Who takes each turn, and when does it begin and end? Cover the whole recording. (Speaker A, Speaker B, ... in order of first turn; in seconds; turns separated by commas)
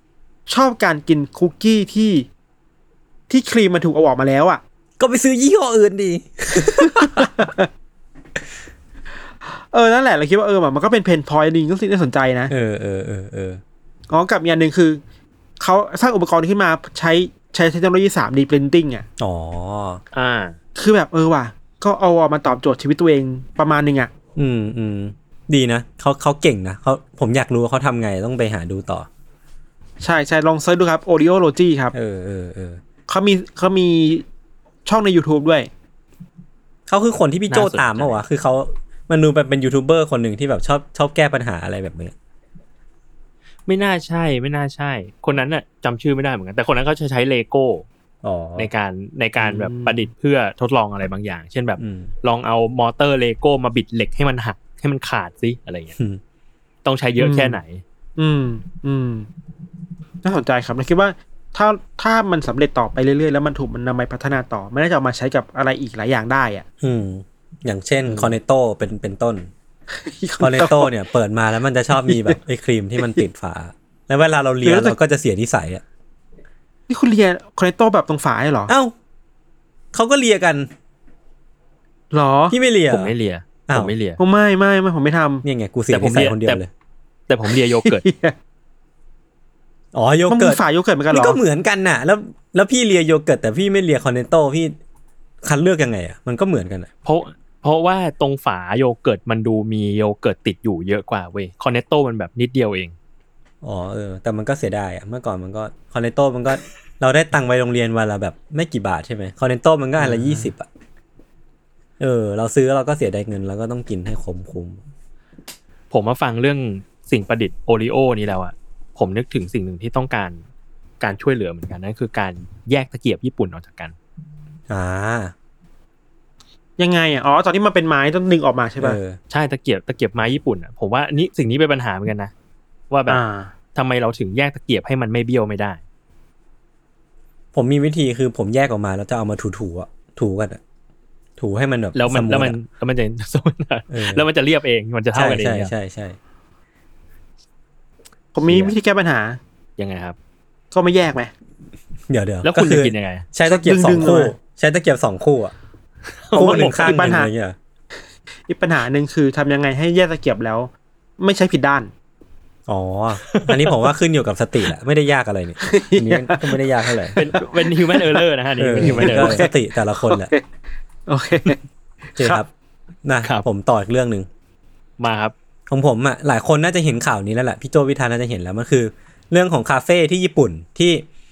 Speaker A: 0.5-2.3, Speaker A: 3.3-4.6, Speaker B: 5.0-7.4, Speaker A: 6.8-7.7, Speaker A: 9.7-12.5, Speaker B: 12.5-13.6, Speaker A: 14.1-15.0, Speaker A: 15.6-19.1, Speaker B: 19.2-20.0, Speaker C: 20.1-20.6, Speaker A: 20.8-24.1, Speaker B: 24.4-29.1, Speaker A: 30.0-31.9, Speaker B: 31.9-32.8, Speaker A: 33.1-34.2, Speaker A: 34.9-35.7, Speaker B: 36.9-42.1, Speaker C: 37.5-38.2, Speaker C: 43.7-47.9, Speaker B: 48.2-48.7, Speaker C: 48.6-56.0, Speaker A: 49.6-50.0, Speaker B: 51.8-52.1, Speaker C: 56.9-57.8, Speaker A: 57.2-57.6, Speaker A: 58.2-59.3, Speaker A: 60.2-66.7, Speaker B: 66.8-69.5, Speaker A: 70.0-70.9, Speaker B: 70.4-75.8, Speaker A: 72.0-72.4, Speaker A: 74.6-75.0, Speaker A: 76.9-78.7, Speaker B: 78.7-79.0, Speaker B: 79.9-80.7, Speaker A: 82.1-82.6, Speaker B: 82.5-83.1, Speaker C: 82.9-84.2, Speaker B: 83.7-83.9, Speaker A: 84.2-85.5, Speaker B: 85.4-86.7, Speaker C: 85.9-86.6, Speaker C: 87.3-88.0, Speaker A: 87.5-88.3, Speaker B: 89.9-94.8, Speaker A: 90.3-91.4, Speaker B: 95.4-96.9, Speaker C: 97.0-103.0, Speaker B: 103.6-110.7, Speaker A: 110.0-110.5, Speaker B: 112.0-114.8, Speaker C: 115.9-120.4, Speaker C: 121.0-124.0, Speaker B: 124.7-125.3, Speaker A: 126.8-129.0, Speaker B: 128.8-129.2, Speaker C: 129.3-132.3, Speaker C: 132.9-133.2, Speaker A: 133.1-133.5, Speaker C: 133.8-135.8, Speaker B: 137.5-140.6, Speaker B: 141.4-142.6, Speaker C: 141.9-145.7, Speaker B: 143.9-144.2, Speaker B: 145.1-146.2, Speaker A: 148.3-149.4, Speaker B: 148.4-148.7, Speaker C: 149.8-150.2, Speaker A: 150.7-151.3, Speaker B: 152.1-155.6, Speaker C: 152.4-153.3, Speaker A: 153.5-154.3, Speaker C: 156.2-157.2, Speaker B: 156.3-157.6, Speaker A: 156.3-157.3, Speaker A: 158.5-161.9, Speaker B: 162.7-167.2, Speaker C: 163.2-163.8, Speaker A: 165.6-166.6, Speaker C: 167.2-169.5, Speaker A: 167.2-168.2, Speaker B: 168.6-170.3, Speaker A: 168.8-170.4, Speaker A: 171.1-171.6, Speaker B: 172.2-172.5, Speaker B: 173.1-174.3, Speaker C: 175.0-175.3, Speaker B: 175.7-181.1